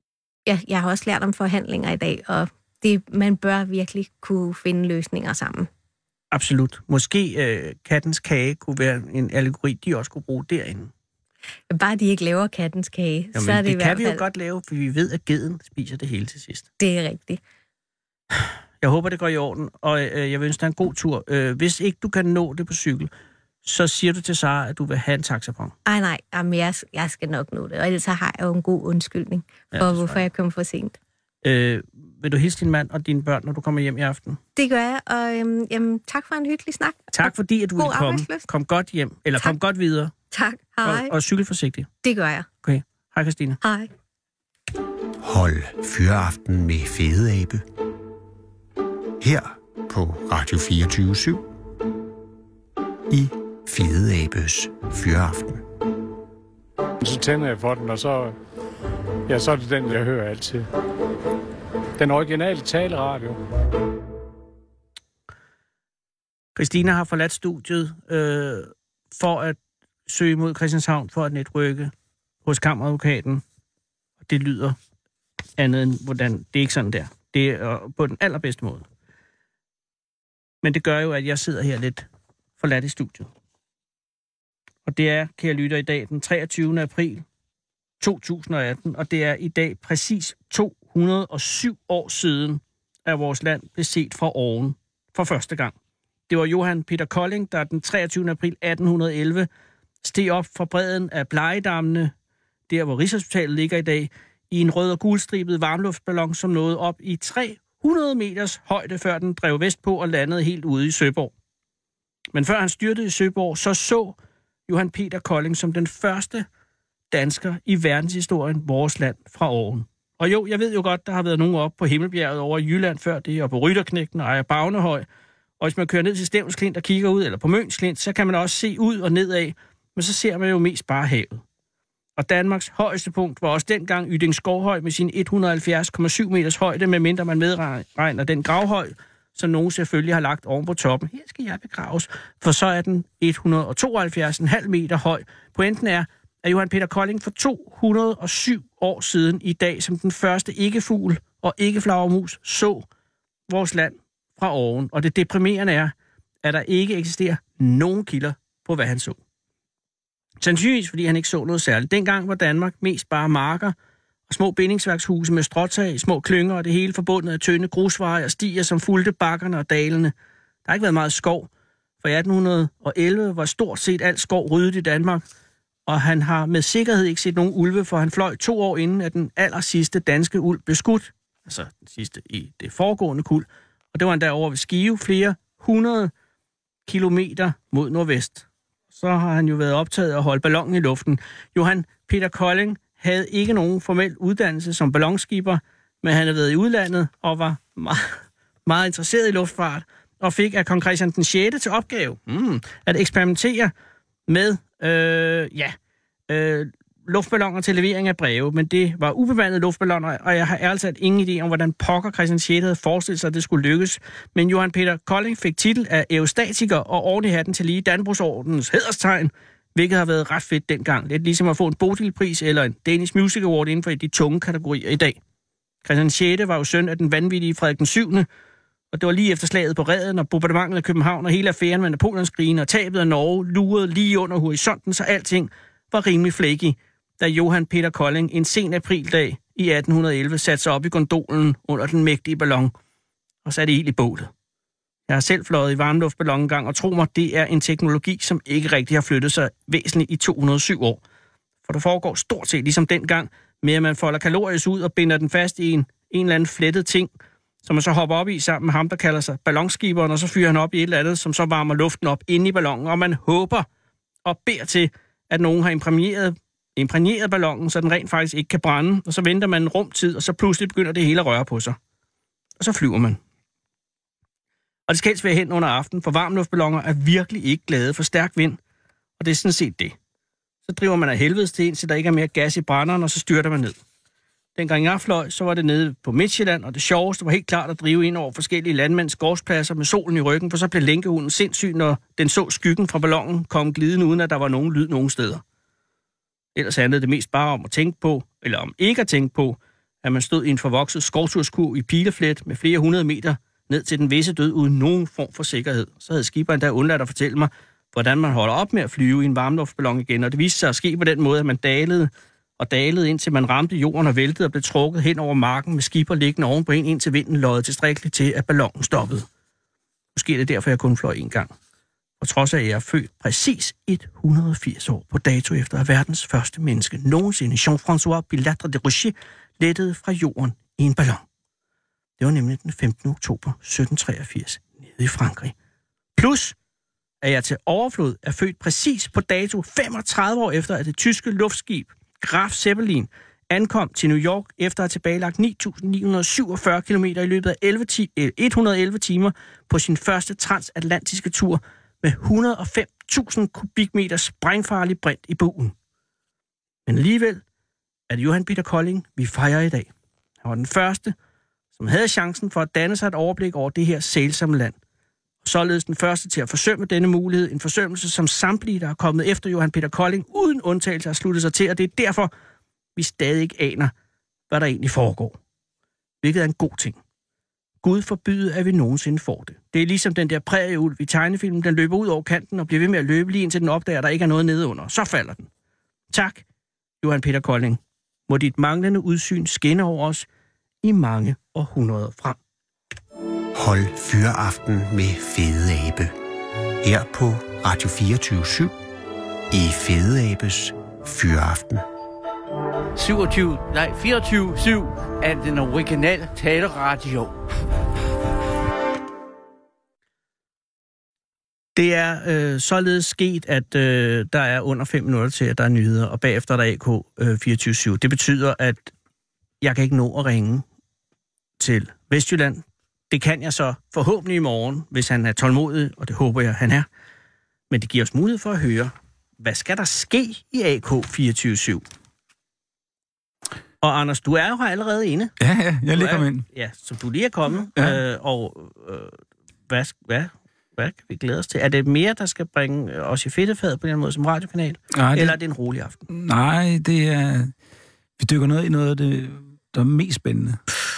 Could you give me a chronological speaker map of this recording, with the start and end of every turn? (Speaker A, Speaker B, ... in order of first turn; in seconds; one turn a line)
Speaker A: 0.5-5.7
Speaker B: 6.3-10.9
Speaker A: 11.7-14.2
Speaker B: 13.3-16.7
Speaker A: 16.8-17.4
Speaker B: 18.8-23.1
Speaker B: 23.6-25.7
Speaker A: 25.9-31.0
Speaker B: 29.7-30.3
Speaker B: 31.4-34.4
Speaker A: 34.6-38.5
Speaker B: 37.1-40.1
Speaker A: 40.3-41.1
Speaker B: 40.8-41.9
Speaker A: 42.0-42.5
Speaker B: 42.6-43.6
Speaker A: 43.6-43.9
Speaker C: 45.2-47.6
Speaker C: 49.2-51.4
Speaker C: 53.1-55.6
Speaker D: 57.0-58.4
Speaker D: 59.3-60.7
Speaker D: 62.0-63.4
Speaker B: 66.6-71.9
Speaker B: 72.5-73.4
Speaker B: 74.2-74.8
Speaker B: 75.6-78.9
Speaker B: 80.6-82.1
Speaker B: 82.6-83.3
Speaker B: 84.9-87.2
Speaker B: 88.0-95.8
Speaker B: 96.3-99.5
Speaker B: 100.0-102.1
Speaker B: 102.7-111.3
Speaker B: 112.3-116.5
Speaker B: 117.1-125.1
Speaker B: 125.6-131.4
Speaker B: 132.2-152.9
Speaker B: 153.5-159.2
Speaker B: 160.4-163.8
Speaker B: 164.3-170.1
Speaker B: 170.7-171.5
Speaker B: 172.0-175.2
Speaker B: 175.9-186.1
Speaker B: 186.9-203.7
Speaker B: 204.3-205.8
Speaker B: 206.3-225.2
Speaker B: 225.8-228.3
Speaker B: 228.9-242.7
Speaker B: 243.4-244.3
Speaker B: 245.1-251.0
Speaker B: 251.7-257.1
Speaker B: 257.6-263.7
Speaker B: 264.2-271.8
Speaker B: 272.6-273.2
Speaker B: 274.9-278.6
Speaker B: 279.2-279.9
Speaker B: 280.7-283.8
Speaker B: 284.6-295.4
Speaker B: 296.6-319.3
Speaker B: 320.1-321.5
Speaker B: 322.2-331.2
Speaker B: 332.2-335.6
Speaker B: 336.2-336.6
Speaker B: 337.2-355.8
Speaker B: 356.9-357.4
Speaker B: 358.1-359.9
Speaker B: 360.4-361.1
Speaker B: 361.8-364.8
Speaker B: 365.4-372.3
Speaker B: 373.0-373.9
Speaker B: 374.5-375.4
Speaker B: 376.2-377.0
Speaker B: 377.8-385.5
Speaker B: 386.1-386.4
Speaker B: 387.0-390.3
Speaker B: 390.8-392.4
Speaker C: 393.5-396.1
Speaker C: 396.8-398.7
Speaker C: 399.5-401.8
Speaker E: 402.9-407.4
Speaker B: 411.8-418.9
Speaker B: 419.6-420.6
Speaker B: 421.6-426.9
Speaker B: 427.7-431.9
Speaker B: 433.8-435.4
Speaker F: 435.4-436.4
Speaker B: 435.9-446.0
Speaker F: 444.9-445.4
Speaker F: 446.1-447.5
Speaker F: 448.2-450.6